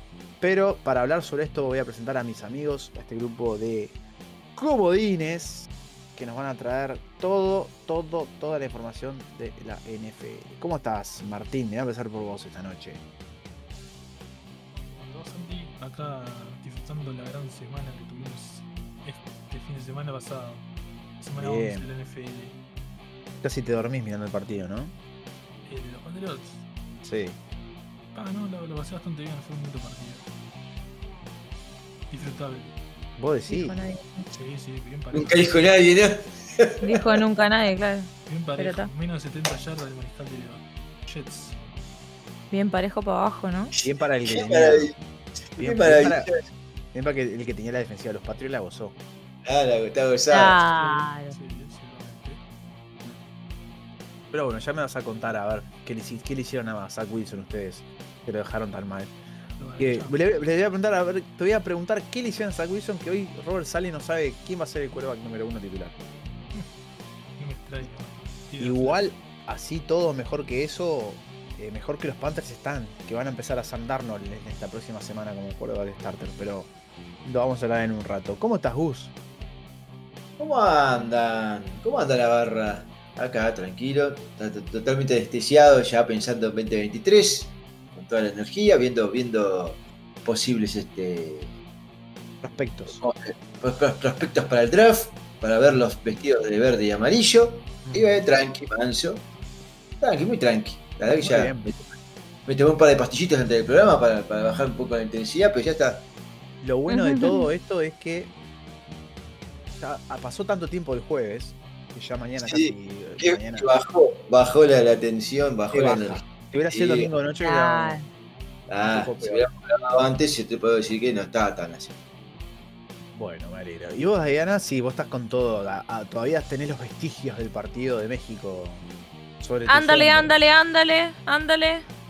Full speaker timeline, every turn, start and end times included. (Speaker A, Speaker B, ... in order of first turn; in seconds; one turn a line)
Speaker A: 0.4-4.0
Speaker A: 4.5-13.0
Speaker B: 14.7-20.7
Speaker B: 21.2-22.6
Speaker A: 21.4-21.9
Speaker A: 23.4-24.9
Speaker B: 25.7-26.7
Speaker A: 27.0-27.4
Speaker B: 28.1-30.3
Speaker B: 32.1-32.8
Speaker A: 33.2-33.8
Speaker C: 33.5-34.3
Speaker B: 34.3-35.7
Speaker D: 35.1-37.2
Speaker C: 36.8-38.9
Speaker B: 38.3-41.6
Speaker C: 42.5-43.7
Speaker D: 43.7-44.9
Speaker A: 43.8-44.9
Speaker D: 45.5-46.3
Speaker A: 45.6-46.3
Speaker A: 46.9-49.0
Speaker D: 49.4-50.6
Speaker C: 50.3-51.4
Speaker B: 50.7-52.4
Speaker A: 54.3-59.1
Speaker B: 59.6-60.2
Speaker A: 59.8-65.9
Speaker B: 67.4-69.0
Speaker A: 68.6-76.7
Speaker A: 77.2-79.1
Speaker D: 80.4-91.5
Speaker A: 92.4-93.0
Speaker D: 92.9-99.2
Speaker A: 97.8-98.2
Speaker D: 100.0-101.8
Speaker A: 101.1-101.7
Speaker D: 102.5-106.1
Speaker A: 106.6-108.3
Speaker C: 106.9-107.4
Speaker A: 109.8-113.7
Speaker D: 112.4-117.1
Speaker A: 115.7-118.0
Speaker C: 117.4-118.1
Speaker D: 118.7-121.9
Speaker A: 118.8-119.5
Speaker A: 123.1-128.8
Speaker A: 129.4-130.3
Speaker C: 129.7-131.8